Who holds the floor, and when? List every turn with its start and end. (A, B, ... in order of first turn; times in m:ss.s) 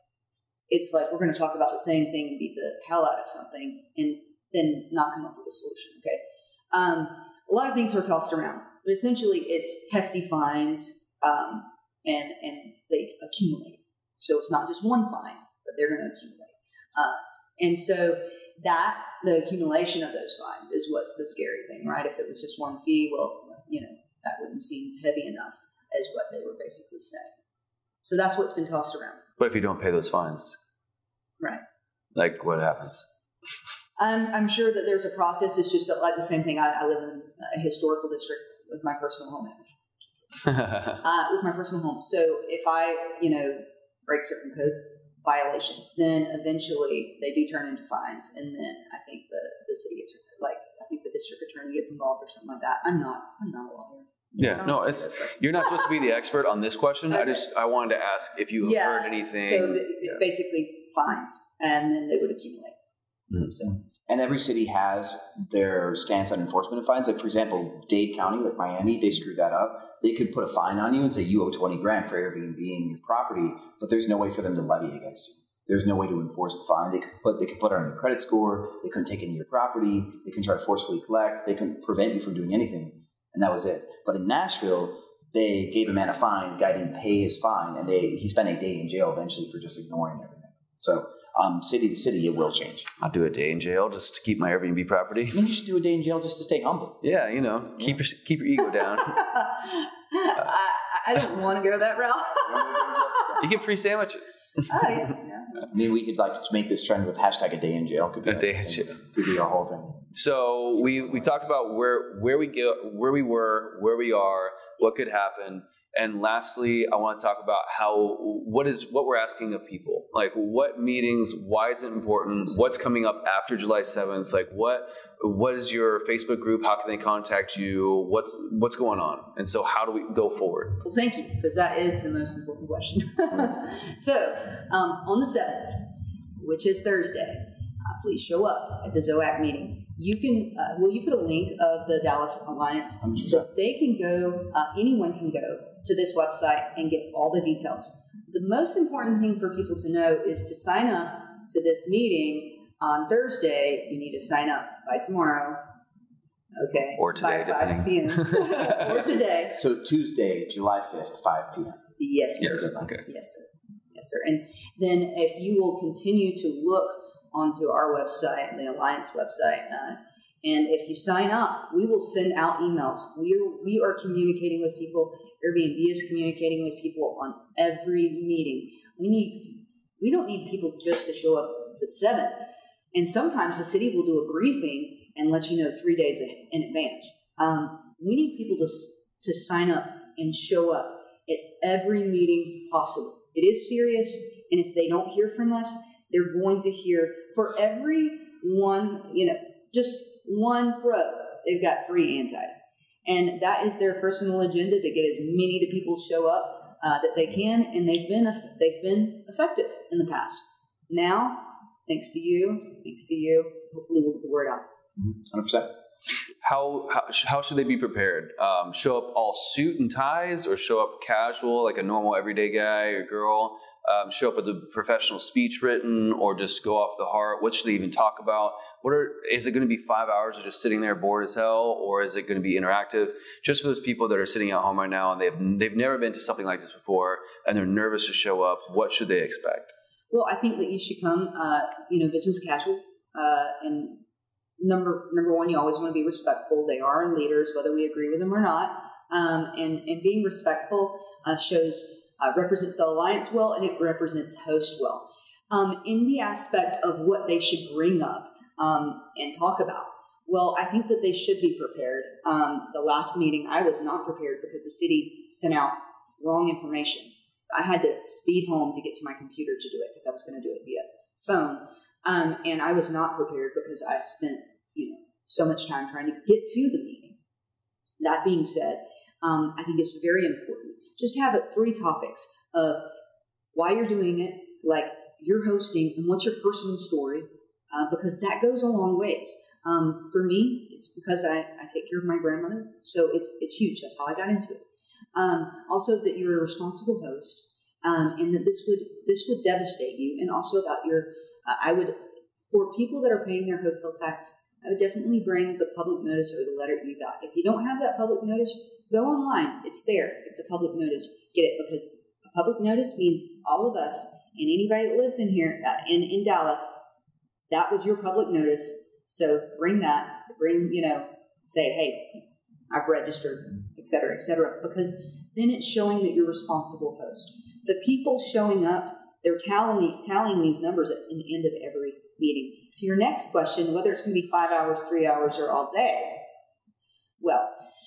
0:00.7-0:27.3 A
0:28.0-0:29.2 A
0:29.4-0:30.6 B
0:32.1-0:33.1 B
0:34.0-0:56.1 A
0:54.4-1:00.2 B
0:57.1-0:57.4 A
0:58.6-1:02.8 A
1:03.6-1:32.9 C
1:33.0-1:35.4 B
1:35.3-1:37.0 C
1:37.0-1:39.2 B
1:38.8-1:43.4 A
1:42.5-1:43.5 C
1:43.4-1:45.1 B
1:44.7-1:45.7 A
1:45.6-1:50.0 C
1:48.2-1:48.9 B
1:50.1-2:10.8 B
2:10.8-2:35.6 A
2:36.5-2:39.6 A
2:37.0-2:39.0 B
2:39.5-2:41.8 C
2:42.0-3:34.6 A
2:42.4-2:43.0 B
2:42.4-2:42.8 C
3:35.0-3:35.7 C
3:36.4-3:59.7 B
4:00.1-4:04.0 A
4:04.6-4:37.2 A
4:38.0-4:42.9 A
4:43.5-4:54.6 A
4:55.1-5:16.7 A
5:17.5-5:36.2 A
5:37.2-5:37.5 A